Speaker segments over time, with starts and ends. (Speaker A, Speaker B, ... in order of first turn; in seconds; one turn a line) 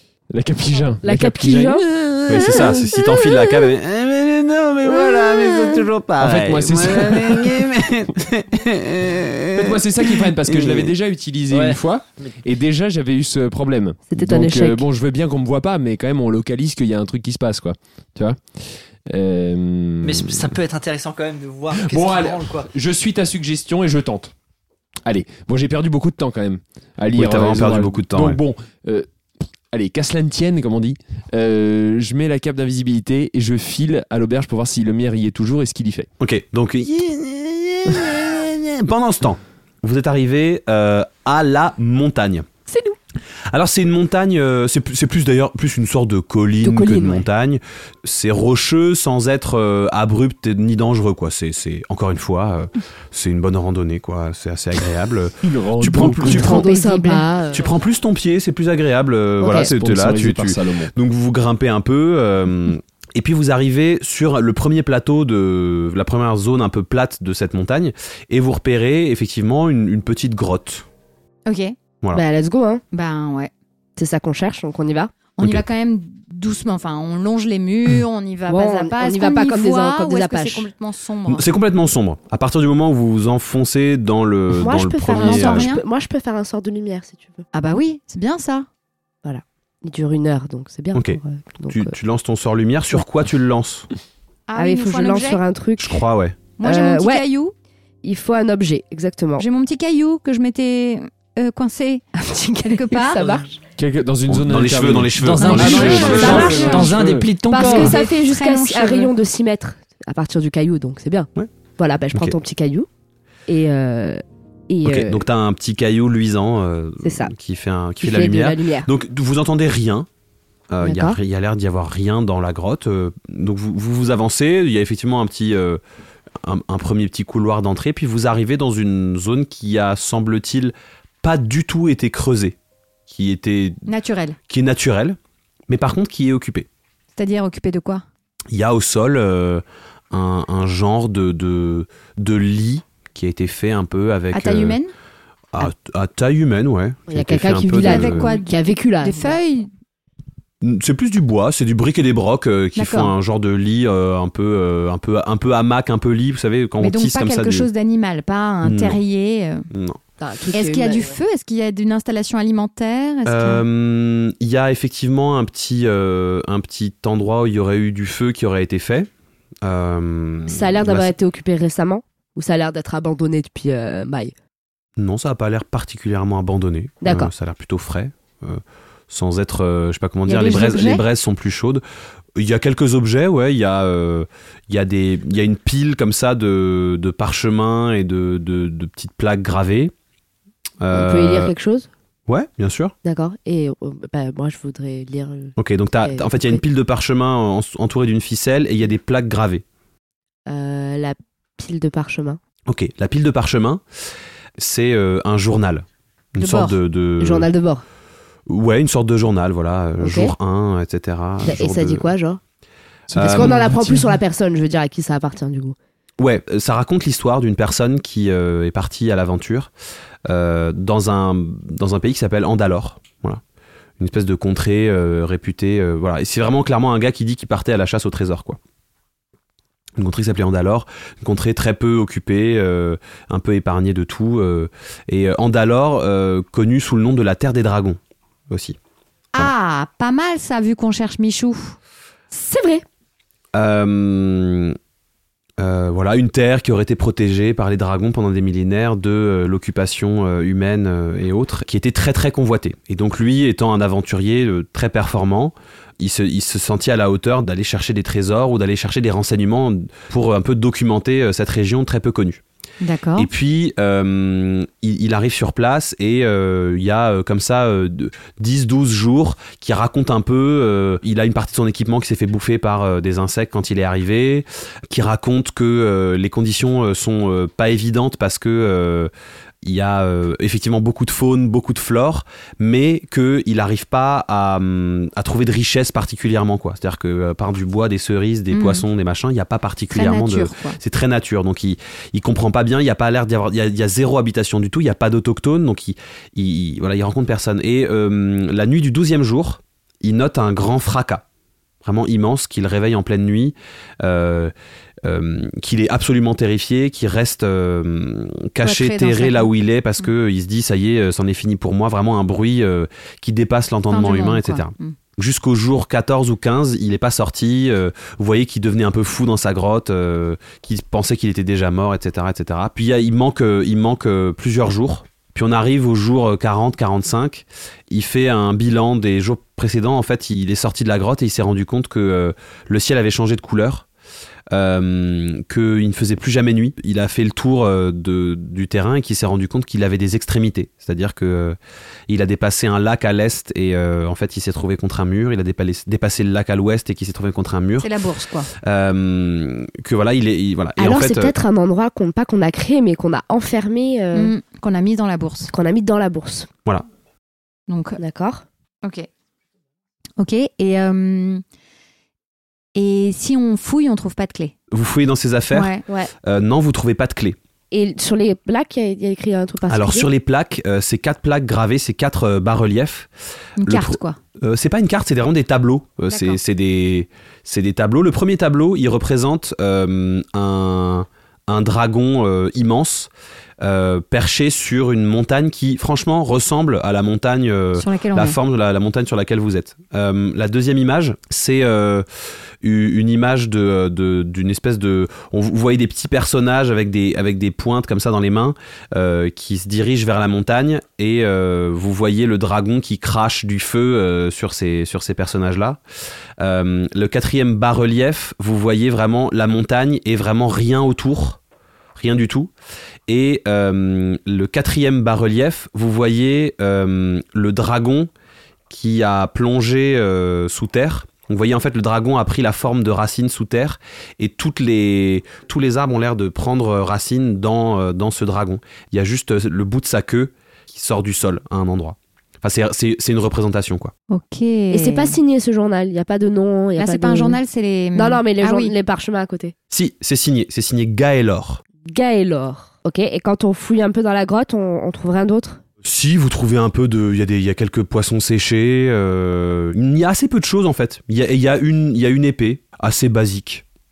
Speaker A: 0.3-2.7
Speaker B: 1.0-1.9
Speaker C: 2.3-10.9
Speaker B: 2.4-2.8
Speaker A: 6.2-7.6
Speaker A: 9.5-20.5
Speaker D: 11.5-12.3
Speaker B: 14.1-14.8
Speaker D: 20.0-22.7
Speaker A: 21.7-24.3
Speaker A: 25.1-29.1
Speaker C: 27.1-28.4
Speaker A: 29.7-36.1
Speaker C: 36.2-42.5
Speaker B: 42.7-43.0
Speaker C: 43.5-56.7
Speaker B: 46.6-47.3
Speaker A: 55.4-56.7
Speaker B: 56.1-57.7
Speaker E: 56.6-57.3
Speaker C: 57.5-70.9
Speaker B: 59.4-59.7
Speaker A: 59.5-60.9
Speaker E: 71.5-71.8
Speaker B: 72.1-72.8
Speaker E: 72.9-73.5
Speaker B: 74.0-75.1
Speaker E: 75.4-81.4
Speaker B: 78.5-80.7
Speaker C: 81.3-85.7
Speaker B: 84.6-87.5
Speaker E: 85.1-85.8
Speaker E: 87.5-88.7
Speaker B: 89.2-91.9
Speaker C: 90.9-93.9
Speaker E: 94.5-95.4
Speaker B: 94.6-96.0
Speaker C: 95.8-96.4
Speaker E: 96.6-97.5
Speaker B: 96.6-97.2
Speaker B: 98.0-99.5
Speaker E: 99.4-103.3
Speaker B: 102.7-103.6
Speaker A: 103.8-107.3
Speaker C: 104.3-106.8
Speaker D: 105.2-108.0
Speaker E: 105.4-106.9
Speaker B: 106.2-106.8
Speaker B: 107.5-112.9
Speaker E: 107.5-109.1
Speaker B: 113.5-115.2
Speaker C: 114.8-120.1
Speaker B: 117.0-117.3
Speaker B: 118.0-118.9
Speaker C: 120.7-125.8
Speaker B: 120.8-121.2
Speaker C: 126.4-132.6
Speaker C: 133.1-133.8
Speaker E: 133.9-134.4
Speaker C: 134.5-135.2
Speaker C: 135.7-136.7
Speaker E: 137.2-138.0
Speaker C: 138.5-144.8
Speaker E: 144.3-144.9
Speaker C: 145.5-148.4
Speaker B: 147.1-149.4
Speaker E: 147.8-149.7
Speaker C: 150.6-157.7
Speaker E: 152.8-153.1
Speaker E: 156.8-159.7
Speaker C: 158.6-159.0
Speaker C: 159.7-160.0
Speaker B: 160.2-161.2
Speaker E: 160.5-163.6
Speaker C: 163.3-169.1
Speaker C: 169.6-171.1
Speaker B: 170.5-174.3
Speaker C: 175.0-181.8
Speaker B: 177.0-177.3
Speaker E: 180.3-181.0
Speaker C: 182.4-189.9
Speaker C: 190.8-191.5
Speaker B: 190.9-191.9
Speaker C: 192.3-192.9
Speaker B: 193.1-196.6
Speaker C: 195.6-199.6
Speaker B: 200.5-202.4
Speaker C: 202.7-203.8
Speaker C: 204.6-207.5
Speaker E: 206.4-206.8
Speaker B: 207.2-207.8
Speaker C: 208.5-212.1
Speaker B: 210.0-210.3
Speaker B: 211.4-212.4
Speaker A: 213.1-214.1
Speaker B: 213.2-215.8
Speaker C: 213.2-213.6
Speaker C: 216.2-219.7
Speaker C: 220.3-223.4
Speaker C: 224.0-228.6
Speaker C: 230.0-238.0
Speaker C: 238.5-238.8
Speaker E: 239.3-241.8
Speaker B: 242.3-242.8
Speaker C: 243.5-244.8
Speaker C: 245.6-262.4
Speaker E: 262.8-263.3
Speaker C: 263.2-279.1
Speaker C: 279.6-301.2
Speaker E: 288.5-288.9
Speaker E: 289.9-290.8
Speaker C: 301.8-304.5
Speaker C: 305.0-333.9
Speaker E: 308.6-309.5
Speaker E: 313.9-315.0
Speaker C: 334.5-341.6
Speaker C: 342.1-347.9
Speaker E: 347.8-348.5
Speaker C: 348.6-351.4
Speaker B: 350.8-354.3
Speaker E: 354.1-355.5
Speaker B: 355.5-356.5
Speaker E: 357.7-358.0
Speaker B: 358.0-358.4
Speaker E: 360.2-361.4
Speaker E: 362.8-364.5
Speaker C: 364.7-367.4
Speaker E: 365.5-365.8
Speaker B: 365.9-366.1
Speaker B: 367.7-370.1
Speaker C: 369.7-373.1
Speaker E: 373.6-374.2
Speaker C: 373.6-383.1
Speaker E: 376.1-376.4
Speaker C: 383.6-392.1
Speaker E: 387.8-388.4
Speaker C: 392.6-405.8
Speaker C: 406.4-411.4
Speaker C: 412.0-412.5
Speaker C: 413.1-418.1
Speaker C: 418.7-433.9
Speaker E: 434.1-435.2
Speaker B: 434.7-437.4
Speaker E: 436.8-438.7
Speaker B: 437.9-439.5
Speaker C: 439.7-441.6
Speaker B: 441.8-445.6
Speaker C: 445.8-453.6